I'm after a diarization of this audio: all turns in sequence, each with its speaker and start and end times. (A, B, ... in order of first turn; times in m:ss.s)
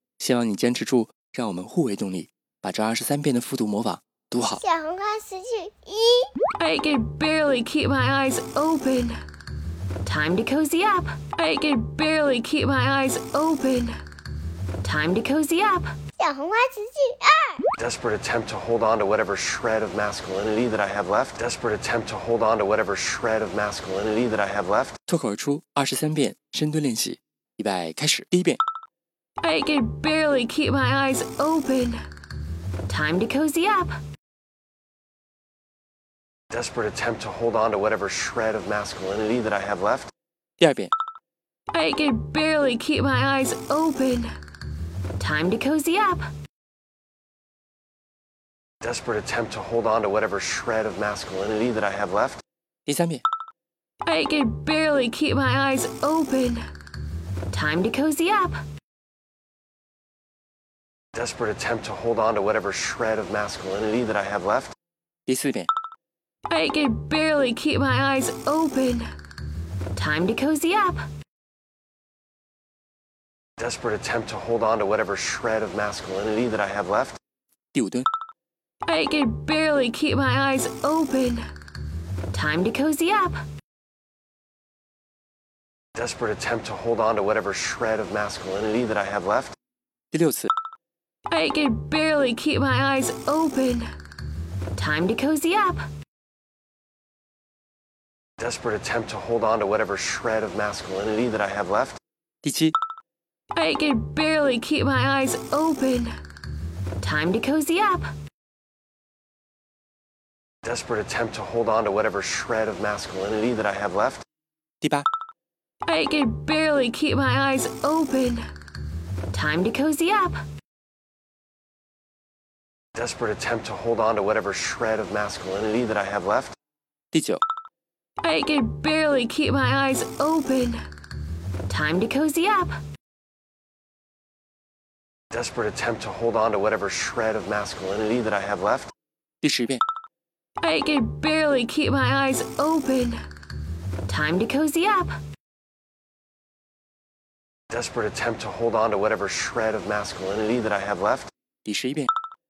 0:00.2-0:04.6 A
0:04.4-0:06.3 B
0:06.6-0:09.1 C
0:10.1-0:13.9 C
0:14.8-0:15.8 C
0:16.2-0:17.6 B
0:17.8-0:24.9 D
0:25.1-0:28.6 A
0:29.4-0:32.0 C
0:32.9-0:33.9 C
0:36.5-0:40.1 D
0:40.6-0:40.9 A
0:41.8-0:44.3 C
0:45.2-0:46.2 C
0:48.8-0:52.4 D
0:52.9-0:53.2 A
0:54.1-0:56.6 C
0:57.5-0:58.5 C
1:01.1-1:04.7 D
1:05.3-1:05.7 A
1:06.5-1:09.1 C
1:10.0-1:11.0 C
1:13.6-1:17.2 D
1:17.8-1:18.1 A
1:18.9-1:21.4 C
1:22.3-1:23.4 C
1:25.9-1:29.5 D
1:30.1-1:30.5 A
1:31.3-1:33.9 C
1:34.8-1:35.8 C
1:38.4-1:42.0 D
1:42.4-1:42.7 A
1:43.6-1:46.1 C
1:47.0-1:48.0 C
1:50.6-1:54.2 D
1:55.9-1:58.4 C
1:59.4-2:00.3 C
2:02.9-2:06.5 D
2:07.1-2:07.4 A
2:08.2-2:10.8 C
2:11.7-2:12.7 C
2:15.3-2:18.9 D
2:19.4-2:19.8 A
2:20.6-2:23.2 C
2:24.1-2:25.1 C
2:27.7-2:31.3 D
2:31.6-2:32.1 A